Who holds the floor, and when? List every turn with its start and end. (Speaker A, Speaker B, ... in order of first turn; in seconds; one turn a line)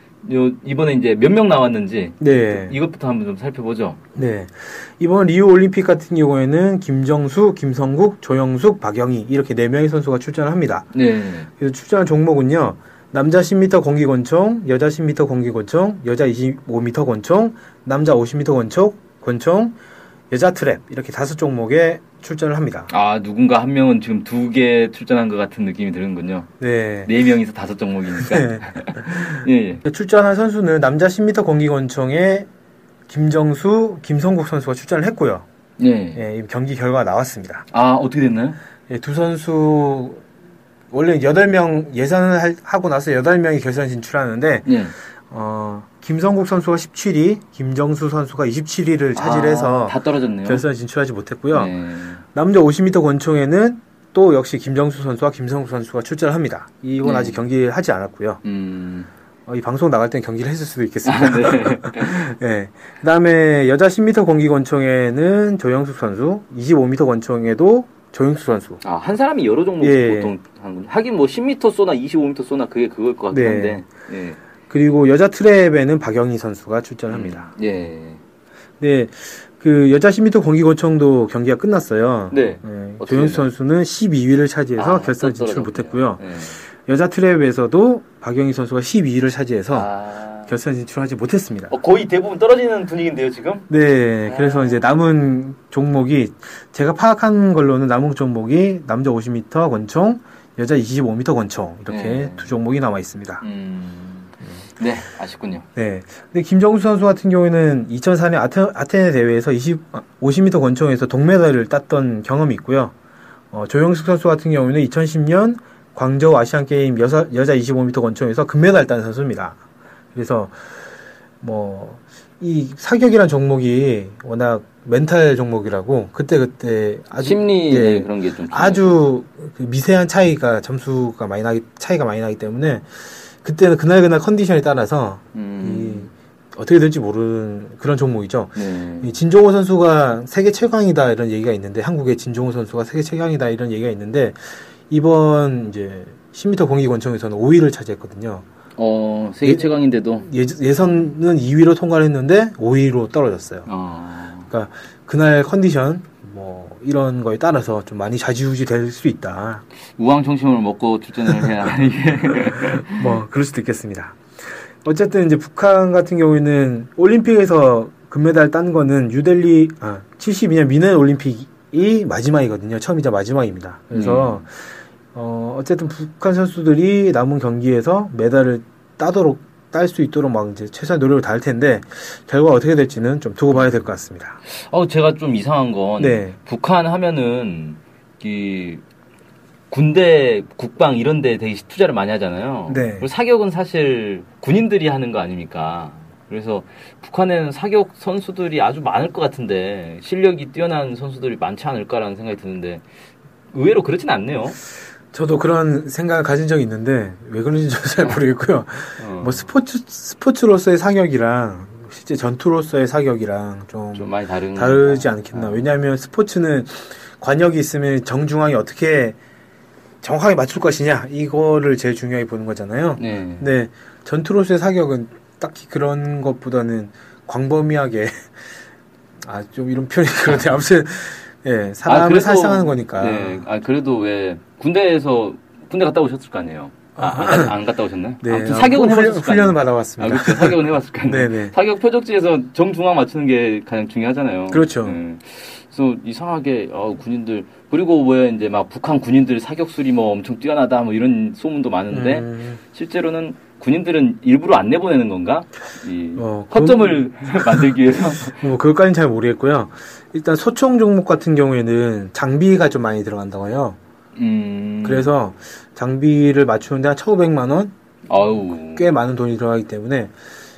Speaker A: 0.2-4.0
Speaker B: 2.2-2.8
Speaker B: 4.2-10.9
Speaker A: 10.9-11.5
Speaker B: 11.6-19.8
Speaker B: 20.3-22.9
Speaker A: 22.9-26.5
Speaker B: 26.6-27.1
Speaker A: 27.0-29.8
Speaker B: 28.2-32.5
Speaker B: 33.1-35.5
Speaker A: 35.8-36.2
Speaker B: 36.1-37.7
Speaker A: 37.7-38.6
Speaker B: 38.9-40.2
Speaker B: 40.9-44.8
Speaker A: 44.6-45.0
Speaker B: 45.3-51.8
Speaker A: 49.1-50.6
Speaker A: 51.5-52.2
Speaker B: 52.3-58.4
Speaker A: 57.0-57.4
Speaker A: 58.4-59.1
Speaker B: 59.5-68.8
Speaker A: 61.0-62.4
Speaker A: 68.8-74.4
Speaker B: 69.8-70.3
Speaker B: 73.3-73.8
Speaker B: 74.7-77.5
Speaker A: 77.1-78.2
Speaker B: 78.8-89.9
Speaker A: 82.3-83.5
Speaker A: 84.8-86.6
Speaker A: 89.7-90.5
Speaker B: 90.5-91.8
Speaker A: 91.7-93.7
Speaker B: 93.7-103.4
Speaker A: 94.2-94.8
Speaker A: 101.9-102.5
Speaker A: 103.4-105.7
Speaker B: 105.8-112.9
Speaker B: 113.5-119.6
Speaker B: 120.1-120.7
Speaker B: 121.4-148.4
Speaker A: 127.2-129.0
Speaker A: 135.3-136.1
Speaker A: 138.6-139.2
Speaker A: 148.8-150.3
Speaker B: 149.4-149.7
Speaker B: 150.2-153.7
Speaker A: 153.7-154.5
Speaker B: 154.5-159.6
Speaker A: 160.0-163.2
Speaker B: 163.0-164.2
Speaker B: 164.8-174.6
Speaker A: 173.9-174.4
Speaker B: 175.1-184.4
Speaker A: 184.5-188.8
Speaker B: 186.0-186.4
Speaker A: 189.7-202.8
Speaker B: 192.7-193.1
Speaker A: 203.5-204.6
Speaker B: 205.1-219.2
Speaker A: 209.0-209.5
Speaker A: 213.9-215.7
Speaker B: 220.0-228.3
Speaker A: 223.0-223.5
Speaker B: 229.2-233.5
Speaker A: 231.8-258.4
Speaker B: 237.0-237.6
Speaker B: 238.2-241.6
Speaker B: 244.5-245.0
Speaker B: 251.9-252.6
Speaker B: 256.2-257.8
Speaker B: 258.3-263.8
Speaker A: 264.1-265.1
Speaker B: 264.8-267.7
Speaker A: 268.1-268.9
Speaker B: 268.6-270.1